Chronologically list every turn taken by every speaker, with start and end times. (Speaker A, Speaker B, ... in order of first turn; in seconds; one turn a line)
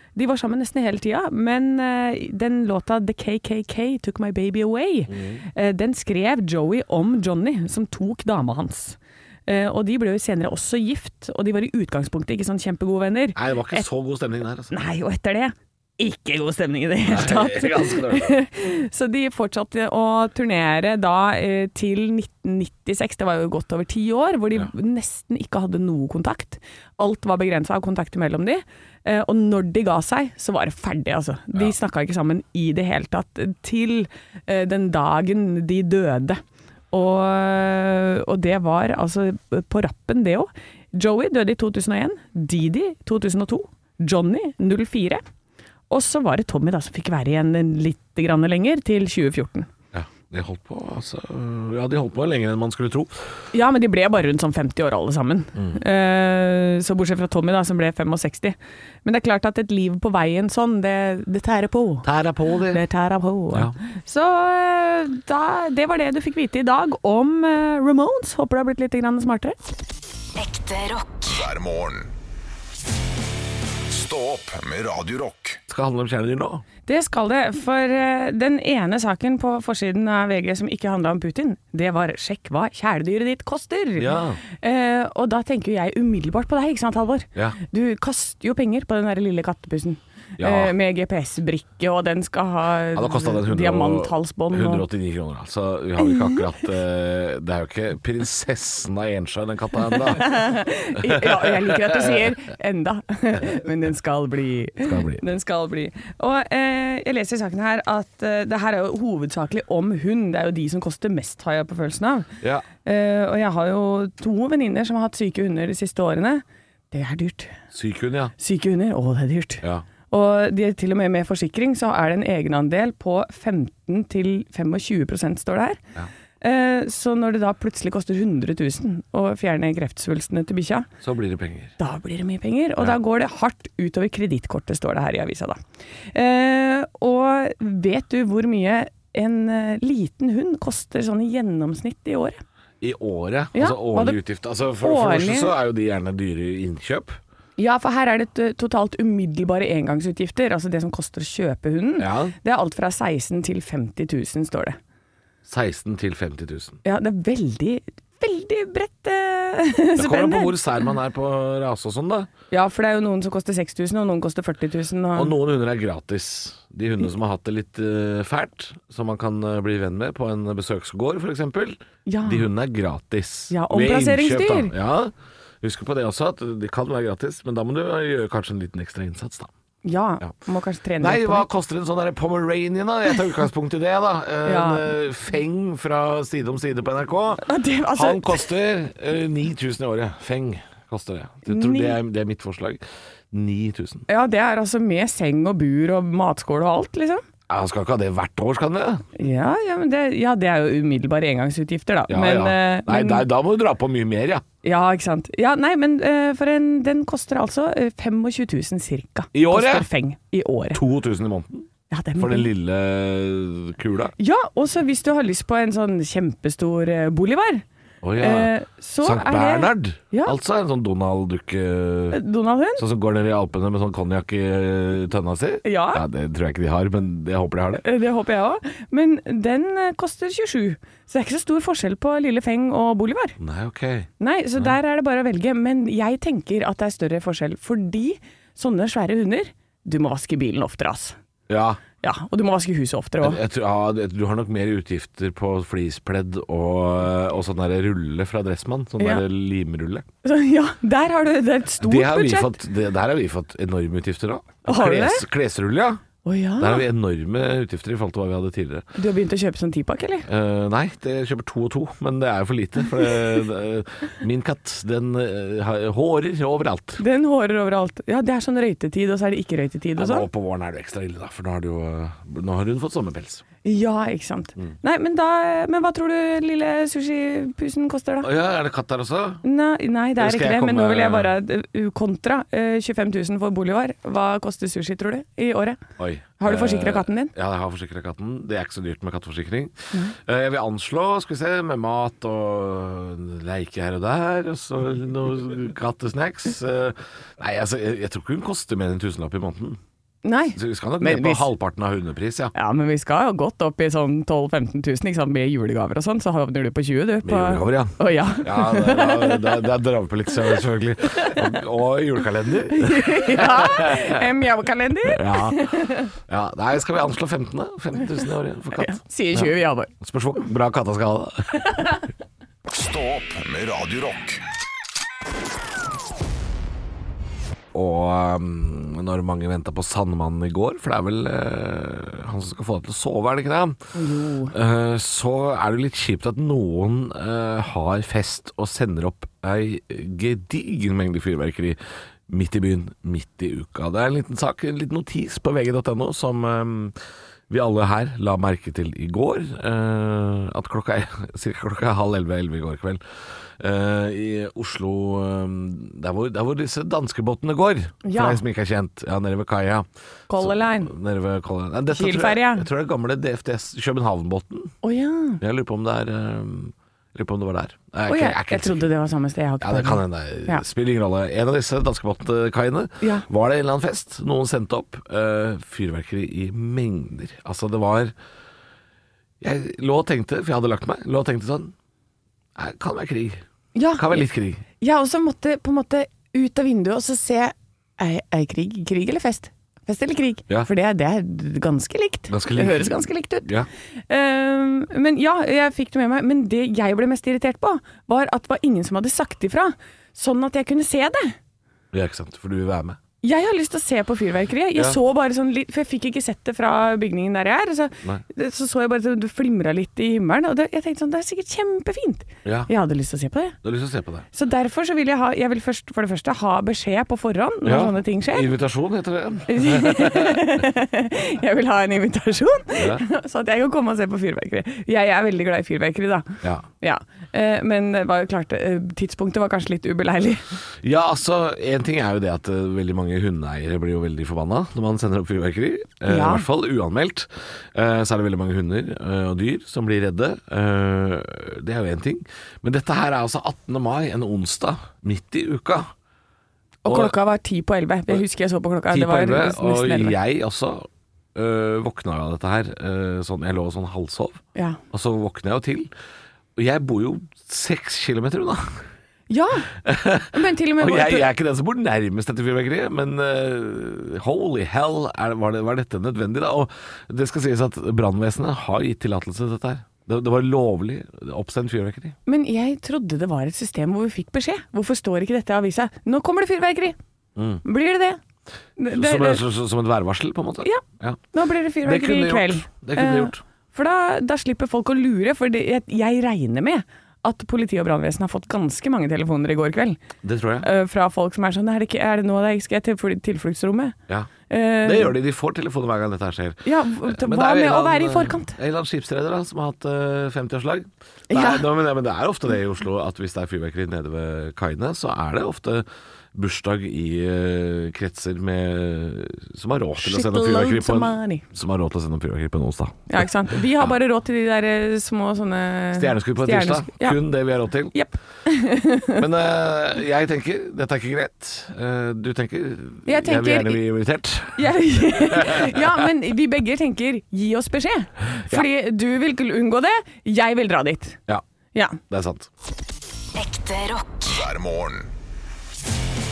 Speaker A: 0.1-13.8
Speaker B: 5.1-5.4
Speaker B: 13.3-14.8
Speaker A: 14.7-45.2
Speaker B: 17.0-18.4
Speaker A: 45.9-49.7
Speaker B: 49.9-53.2
Speaker A: 53.5-62.1
Speaker B: 55.5-55.8
Speaker B: 62.0-62.8
Speaker A: 62.7-69.5
Speaker C: 70.3-71.4
Speaker D: 71.2-72.1
Speaker D: 73.9-75.6
Speaker B: 75.7-76.6
Speaker A: 76.9-94.8
Speaker B: 84.0-84.4
Speaker B: 90.4-90.7
Speaker B: 92.9-100.4
Speaker A: 96.0-96.4
Speaker A: 100.0-112.3
Speaker B: 101.0-102.3
Speaker B: 104.8-105.2
Speaker B: 112.4-112.7
Speaker A: 112.8-117.5
Speaker B: 117.7-118.3
Speaker A: 118.4-125.8
Speaker A: 126.4-130.9
Speaker B: 131.0-131.7
Speaker A: 131.8-135.6
Speaker A: 136.1-142.4
Speaker B: 142.8-147.2
Speaker A: 143.5-144.2
Speaker A: 144.8-145.5
Speaker A: 147.6-154.8
Speaker B: 152.0-152.3
Speaker B: 155.4-156.8
Speaker A: 156.8-160.5
Speaker B: 159.9-162.3
Speaker A: 162.5-165.3
Speaker B: 165.1-179.5
Speaker A: 172.1-172.5
Speaker A: 173.5-174.7
Speaker A: 179.8-181.5
Speaker B: 181.0-194.1
Speaker A: 184.4-184.9
Speaker A: 187.4-188.5
Speaker A: 191.5-192.0
Speaker A: 194.1-197.2
Speaker B: 197.5-199.1
Speaker A: 199.2-203.2
Speaker B: 202.1-204.4
Speaker A: 204.6-210.8
Speaker B: 209.3-209.9
Speaker B: 210.7-214.1
Speaker A: 211.9-212.5
Speaker A: 214.2-217.6
Speaker B: 218.0-222.2
Speaker A: 218.2-220.3
Speaker A: 222.1-222.8
Speaker B: 222.8-227.8
Speaker A: 225.6-226.0
Speaker A: 227.8-233.3
Speaker B: 233.4-234.7
Speaker A: 234.2-241.2
Speaker B: 241.5-241.8
Speaker A: 242.0-243.4
Speaker B: 243.2-250.0
Speaker A: 249.0-249.2
Speaker A: 250.2-252.6
Speaker B: 251.8-256.0
Speaker A: 254.6-255.2
Speaker A: 256.2-256.8
Speaker B: 256.6-258.9
Speaker A: 258.9-260.3
Speaker B: 260.2-267.0
Speaker A: 267.0-270.3
Speaker B: 270.0-273.4
Speaker A: 273.6-278.3
Speaker B: 278.2-279.4
Speaker A: 279.4-285.8
Speaker B: 280.2-281.3
Speaker B: 286.0-299.8
Speaker A: 286.4-287.3
Speaker A: 300.2-301.5
Speaker B: 300.5-302.5
Speaker A: 302.5-309.6
Speaker B: 307.2-314.2
Speaker A: 311.2-311.4
Speaker A: 312.7-316.1
Speaker B: 315.0-321.7
Speaker A: 318.7-319.9
Speaker A: 321.6-322.0
Speaker D: 322.7-324.4
Speaker B: 327.7-333.8
Speaker A: 333.9-334.5
Speaker B: 334.5-346.9
Speaker B: 347.5-353.0
Speaker B: 353.6-364.7
Speaker A: 358.0-358.4
Speaker A: 360.3-360.9
Speaker A: 361.9-362.7
Speaker A: 364.8-365.4
Speaker B: 365.4-368.9
Speaker A: 368.1-370.6
Speaker B: 369.6-378.1
Speaker A: 373.0-373.2
Speaker B: 379.4-381.7
Speaker B: 382.6-383.4
Speaker A: 383.7-384.2
Speaker B: 383.9-384.6
Speaker A: 384.8-393.5
Speaker B: 392.3-392.9
Speaker A: 394.1-401.4
Speaker B: 401.9-403.0
Speaker A: 403.2-413.6
Speaker B: 412.4-412.7
Speaker B: 413.6-414.2
Speaker A: 414.3-418.5
Speaker B: 417.6-420.6
Speaker A: 419.5-430.5
Speaker B: 422.8-423.0
Speaker B: 430.8-445.9
Speaker A: 436.1-436.4
Speaker A: 446.8-450.1
Speaker B: 446.9-447.1
Speaker B: 448.9-454.4
Speaker A: 454.5-454.8
Speaker B: 454.9-455.9
Speaker B: 456.6-458.8
Speaker A: 459.3-459.7
Speaker B: 459.8-472.1
Speaker A: 460.3-461.3
Speaker A: 472.2-476.9
Speaker B: 477.4-477.6
Speaker A: 477.6-478.2
Speaker A: 478.8-479.4
Speaker B: 478.9-481.2
Speaker A: 480.6-490.0
Speaker B: 481.8-483.4
Speaker B: 490.2-490.7
Speaker A: 490.6-493.9
Speaker A: 494.5-495.1
Speaker B: 494.8-513.9
Speaker A: 496.6-498.6
Speaker A: 501.3-501.7
Speaker A: 510.0-511.4
Speaker A: 513.1-517.2
Speaker B: 515.9-517.9
Speaker A: 517.9-519.2
Speaker B: 519.1-526.1
Speaker A: 523.0-523.8
Speaker A: 524.5-531.2
Speaker A: 531.7-532.0
Speaker B: 532.1-532.5
Speaker C: 533.3-534.3
Speaker D: 534.2-535.1